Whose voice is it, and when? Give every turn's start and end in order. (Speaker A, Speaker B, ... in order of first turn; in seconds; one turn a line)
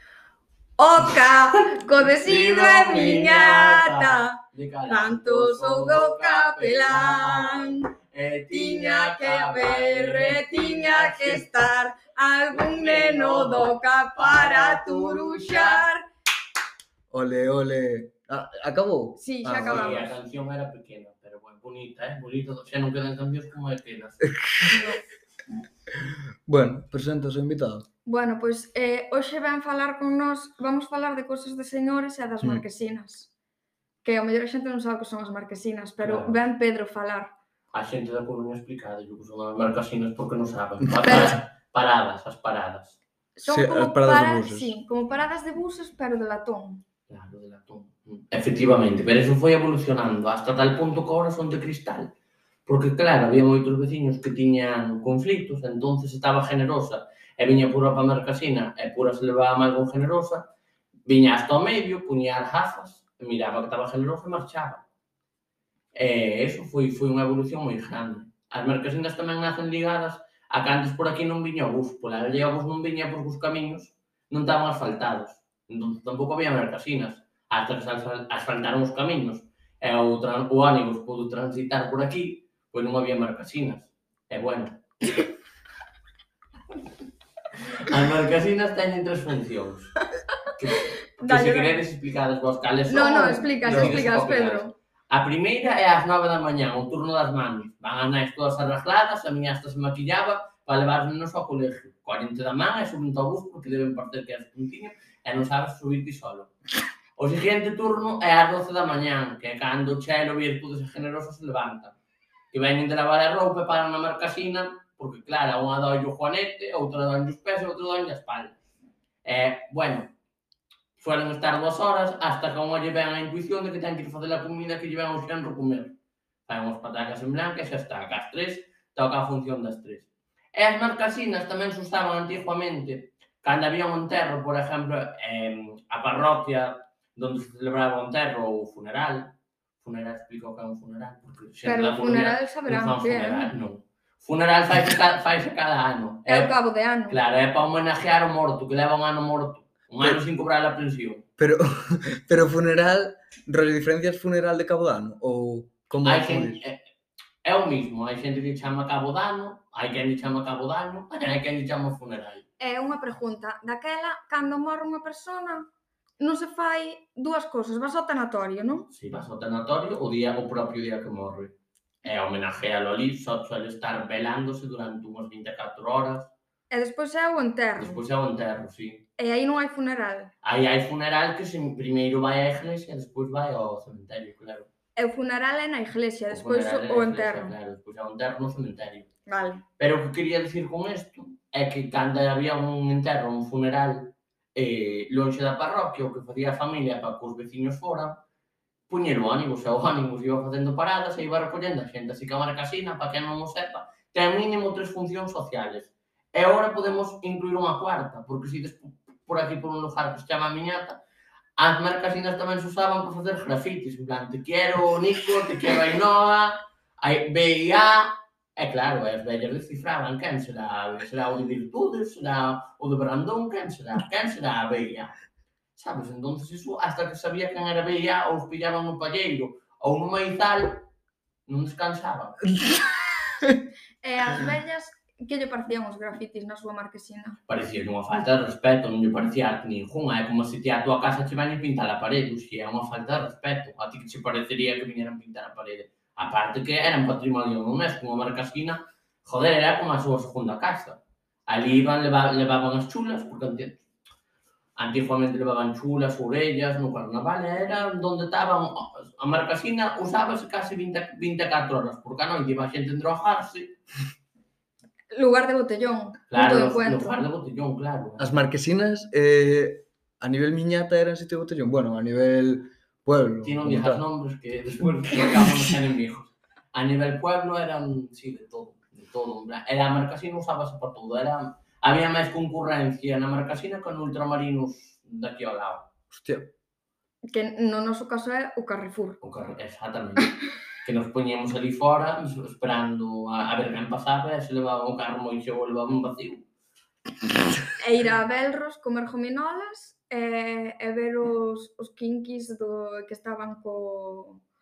Speaker A: 0.8-7.9
Speaker B: 1.9-11.5
Speaker A: 8.5-16.0
Speaker B: 12.5-15.9
Speaker C: 17.1-20.2
Speaker A: 19.2-20.1
Speaker B: 19.5-24.3
Speaker C: 24.3-24.8
Speaker A: 24.7-25.0
Speaker C: 25.9-27.9
Speaker A: 28.1-33.3
Speaker A: 34.0-37.3
Speaker B: 36.0-36.4
Speaker B: 37.7-43.0
Speaker A: 41.1-41.4
Speaker A: 43.4-46.8
Speaker C: 43.5-44.7
Speaker B: 47.1-52.1
Speaker B: 52.7-60.5
Speaker B: 61.1-64.8
Speaker B: 65.9-85.0
Speaker B: 87.6-90.0
Speaker A: 90.5-91.8
Speaker B: 90.5-106.5
Speaker A: 92.9-94.7
Speaker C: 93.7-94.0
Speaker B: 107.2-112.0
Speaker B: 112.5-118.6
Speaker B: 119.2-120.1
Speaker B: 121.0-126.0
Speaker B: 126.5-146.5
Speaker A: 141.7-143.5
Speaker A: 146.3-147.2
Speaker B: 147.1-151.2
Speaker C: 151.4-156.6
Speaker B: 156.0-156.8
Speaker B: 157.4-162.4
Speaker A: 162.6-165.7
Speaker A: 166.2-168.9
Speaker B: 168.9-171.5
Speaker B: 172.0-176.3
Speaker A: 176.7-178.0
Speaker B: 177.8-179.1
Speaker A: 179.2-180.3
Speaker B: 180.4-184.7
Speaker A: 185.0-187.5
Speaker B: 186.3-189.1
Speaker A: 189.3-189.6
Speaker B: 189.8-198.2
Speaker B: 198.9-211.0
Speaker B: 211.6-225.1
Speaker B: 225.8-230.8
Speaker B: 231.5-232.5
Speaker C: 232.5-233.6
Speaker A: 234.0-237.4
Speaker B: 237.5-253.8
Speaker B: 254.8-263.7
Speaker A: 265.1-267.2
Speaker B: 266.3-268.4
Speaker C: 268.2-274.0
Speaker B: 273.4-285.9
Speaker C: 286.1-286.5
Speaker A: 287.3-289.2
Speaker B: 289.2-296.4
Speaker A: 297.8-304.4